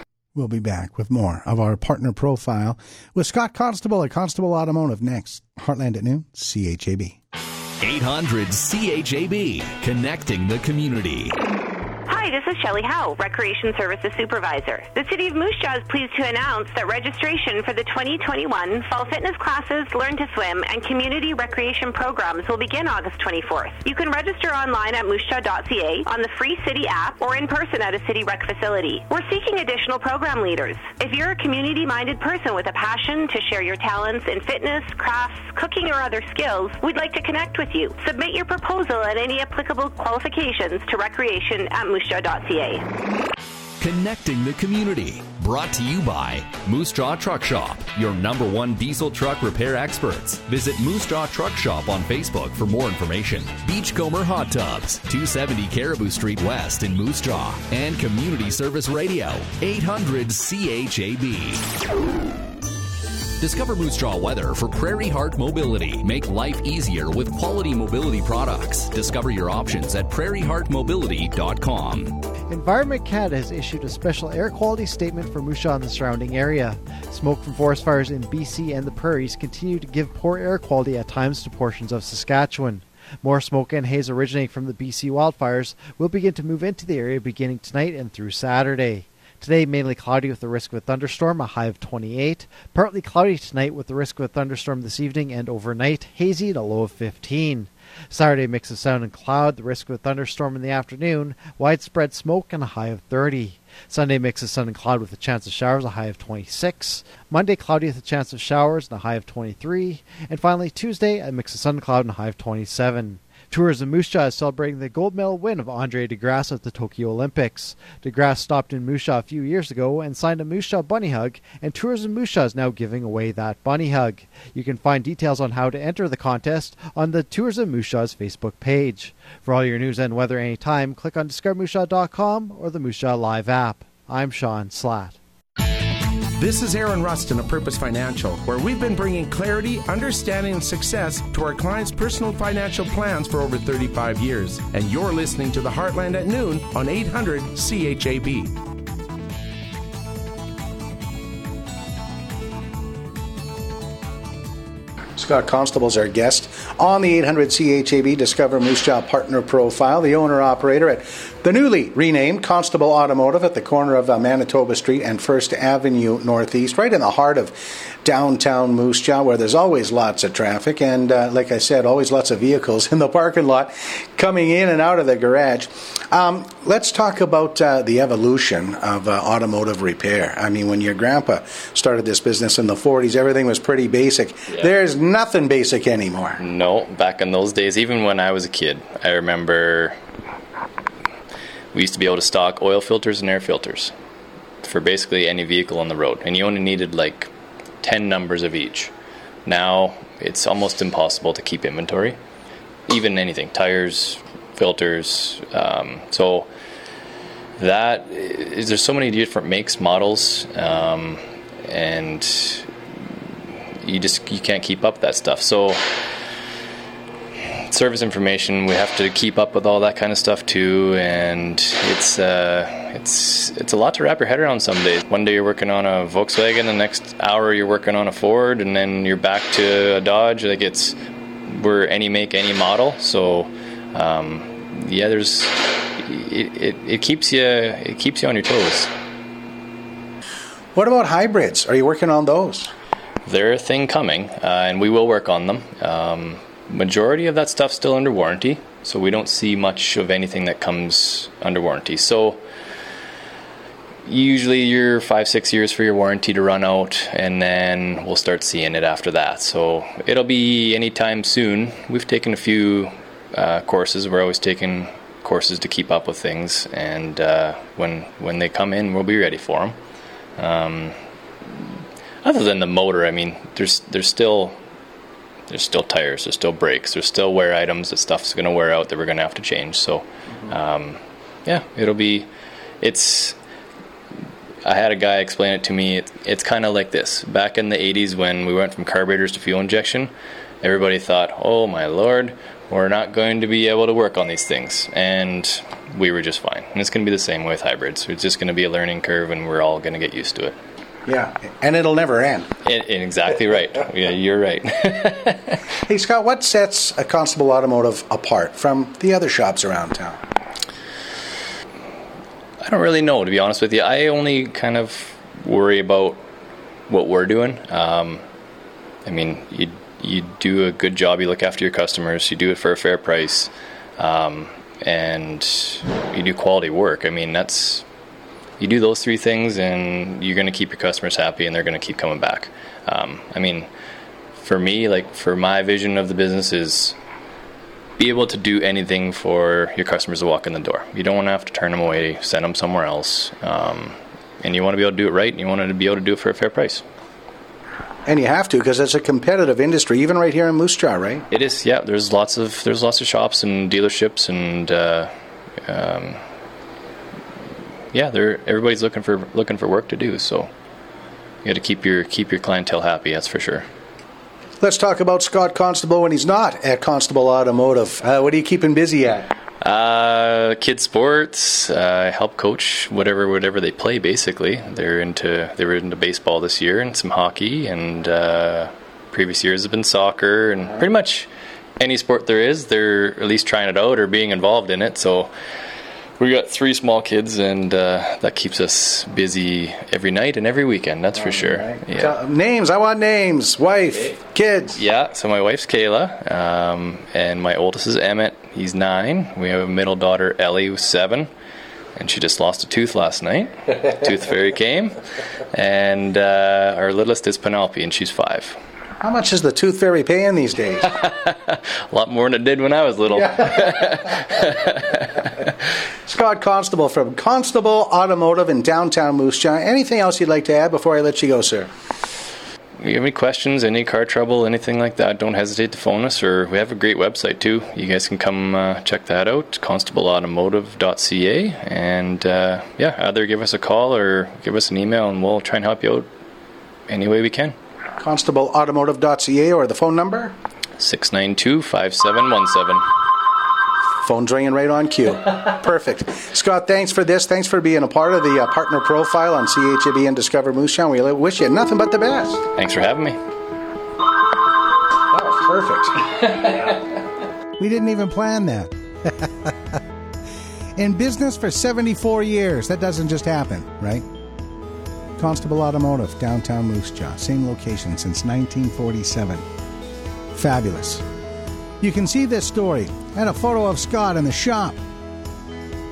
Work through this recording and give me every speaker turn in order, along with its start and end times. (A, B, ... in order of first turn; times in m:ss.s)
0:00.3-0:07.2 A
0:07.8-0:11.3 B
0:12.1-0:42.8 C
0:43.8-1:01.6 B
1:03.4-1:12.1 B
1:12.5-2:15.2 D
2:16.4-2:28.5 E
2:35.2-3:06.4 A
3:06.4-3:10.0 F
3:11.7-3:13.9 F
3:14.6-3:17.3 F
3:17.8-3:18.9 F
3:19.4-3:22.2 F
3:22.9-3:26.5 F
3:27.6-3:32.7 F
3:33.8-3:35.8 F
3:37.7-3:51.0 F
3:51.5-3:58.9 F
4:00.7-4:02.7 A
4:03.2-4:12.4 F
4:14.0-4:29.8 F
4:30.4-4:31.0 F
4:32.2-4:34.6 F
4:35.5-4:42.3 F
4:42.8-4:43.4 F
4:44.6-4:50.1 F
4:50.6-5:00.6 F
5:01.0-5:02.5 A
5:02.6-5:05.6 F
5:05.8-5:10.2 A
5:12.6-5:16.2 F
5:16.9-5:18.2 F
5:19.0-5:27.8 F
5:28.6-5:33.7 F
5:34.4-5:36.9 F
5:38.0-5:46.8 F
5:48.0-5:51.2 A
5:51.3-5:55.1 F
5:55.6-5:56.2 F
5:57.9-6:00.5 F
6:01.4-6:03.6 F
6:04.6-6:09.3 A
6:09.6-6:21.3 F
6:21.8-6:25.3 F
6:26.2-6:32.1 F
6:31.1-6:34.8 A
6:34.8-6:41.3 F
6:42.0-6:45.0 F
6:45.5-6:48.6 F
6:49.0-6:51.0 A
6:51.0-6:55.1 F
6:53.1-6:54.0 A
6:56.0-7:01.7 A
7:02.8-7:16.1 F
7:16.9-7:17.5 F
7:18.0-7:20.4 A
7:20.8-7:22.8 F
7:24.0-7:32.4 A
7:32.6-7:33.2 F
7:35.1-7:36.8 A
7:37.6-7:39.8 A
7:40.8-7:44.0 A
7:45.2-7:49.4 A
7:50.3-7:51.0 A
7:51.8-7:54.8 A